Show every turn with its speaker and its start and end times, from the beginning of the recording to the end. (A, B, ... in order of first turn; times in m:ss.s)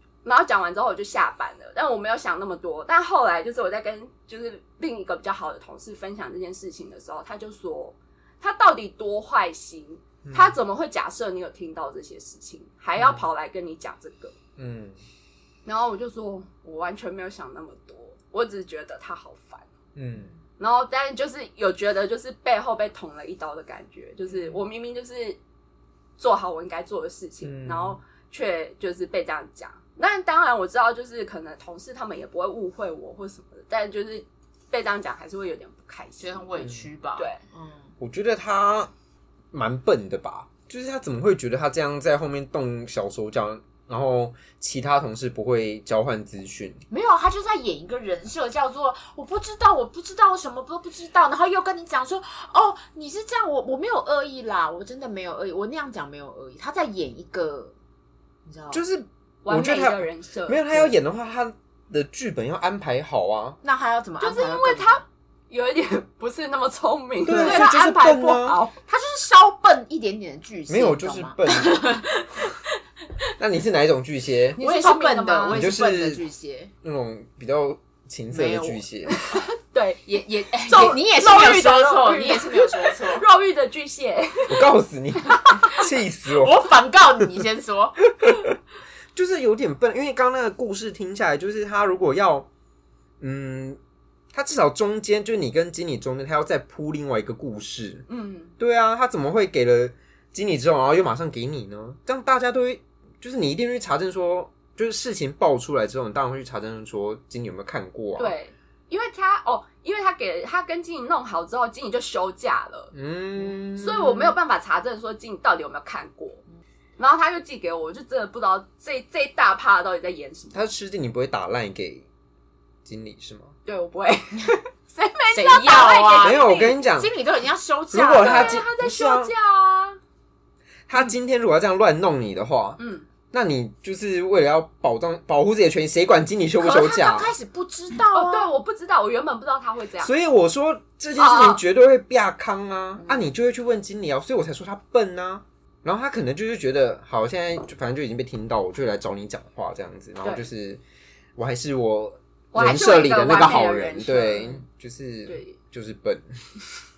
0:00.2-0:14.4 A
0:10.2-0:10.5 B
0:13.0-0:13.2 B
0:14.6-0:15.0 B
0:15.6-0:19.7 A
0:20.0-0:20.3 B
0:20.6-0:25.4 A
0:26.2-0:37.4 A
0:27.4-0:28.0 B
0:36.2-0:37.9 C
0:38.0-0:38.9 B
0:39.5-0:46.8 B
0:46.9-0:57.7 C
0:58.4-0:58.8 C
0:58.7-1:03.6 B
0:59.4-1:00.9 A
1:03.6-1:05.0 C
1:04.2-1:08.7 A
1:07.2-1:08.6 B
1:07.2-1:07.9 C
1:08.8-1:12.1 C
1:10.7-1:11.9 B
1:12.0-1:12.6 A
1:13.4-1:14.6 B
1:14.6-1:15.7 A
1:14.6-1:16.7 C
1:15.5-1:16.2 B
1:16.8-1:19.1 B
1:18.3-1:18.8 C
1:19.1-1:24.7 A
1:20.0-1:23.2 C
1:24.5-1:27.3 B
1:25.3-1:25.8 A
1:26.3-1:28.0 C
1:28.2-1:28.6 B
1:29.1-1:32.5 B
1:33.2-1:33.8 B
1:34.3-1:38.0 B
1:38.1-1:38.5 A
1:38.6-1:48.3 B
1:48.2-1:52.9 A
1:52.9-1:54.3 B
1:53.8-1:56.4 A
1:57.0-2:00.6 A
2:00.5-2:02.1 B
2:02.8-2:03.5 B
2:03.6-2:06.8 A
2:05.3-2:08.6 C
2:06.2-2:07.1 B
2:07.9-2:09.3 B
2:08.2-2:10.0 A
2:10.9-2:12.8 B
2:12.8-2:13.1 A
2:13.3-2:17.3 B
2:16.6-2:18.5 C
2:18.1-2:20.1 A
2:20.0-2:30.8 B
2:21.2-2:21.6 A
2:31.4-2:36.2 B
2:32.5-2:34.6 A
2:35.3-2:35.6 A